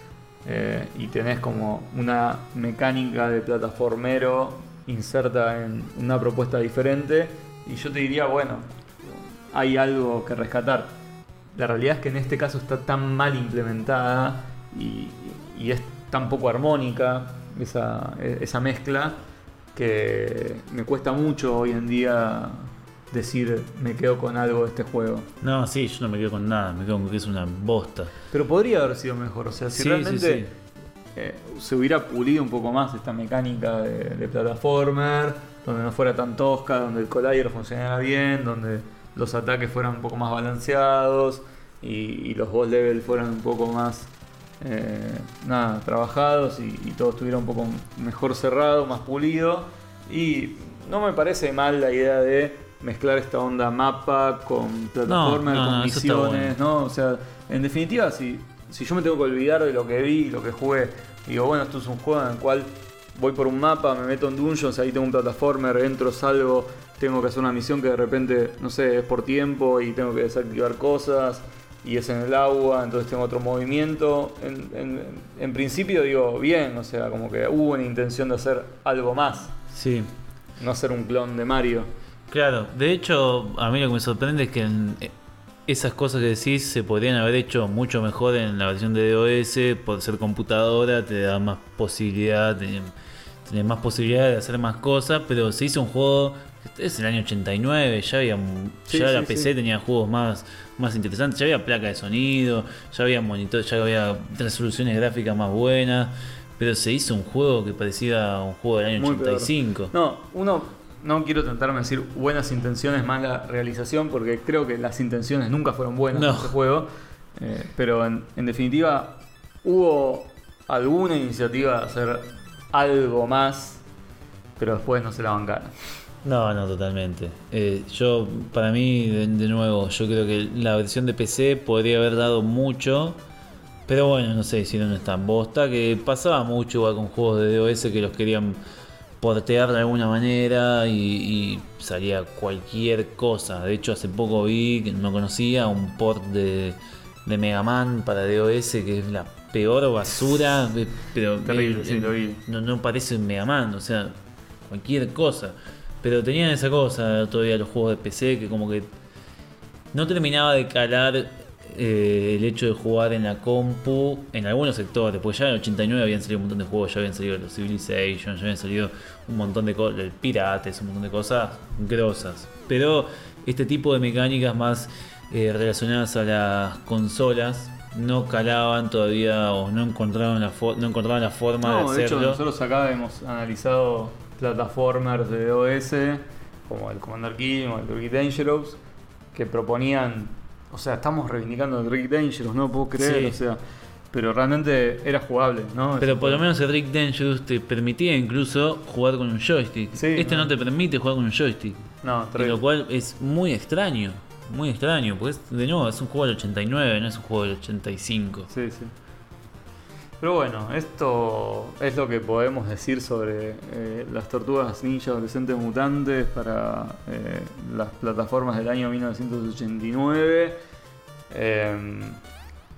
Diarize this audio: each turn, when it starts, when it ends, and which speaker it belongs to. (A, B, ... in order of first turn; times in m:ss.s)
0:00.4-0:11.0 A
0:11.6-0:19.2 A
0:19.8-0:25.3 A
0:25.4-0:28.1 B
0:28.3-0:30.5 A
0:29.8-0:30.5 B
0:31.2-1:19.6 A
0:55.1-0:56.6 B
1:19.7-1:20.1 B
1:20.6-1:21.9 A
1:22.3-1:25.1 B
1:25.7-1:32.9 B
1:33.4-1:49.9 B
1:38.9-1:39.5 A
1:49.0-2:03.8 A
1:56.1-1:56.5 B
2:04.6-2:05.7 A
2:06.2-2:13.2 B
2:13.9-2:18.6 B
2:19.2-2:38.9 B
2:31.4-2:32.4 A
2:39.9-3:02.4 B
3:01.6-3:08.8 A
3:09.3-3:13.6 A
3:13.0-3:13.4 B
3:14.1-3:16.5 A
3:16.0-3:28.5 B
3:20.0-3:20.5 A
3:22.0-3:22.6 A
3:28.5-3:28.9 A
3:30.2-3:40.6 A
3:41.3-3:42.2 A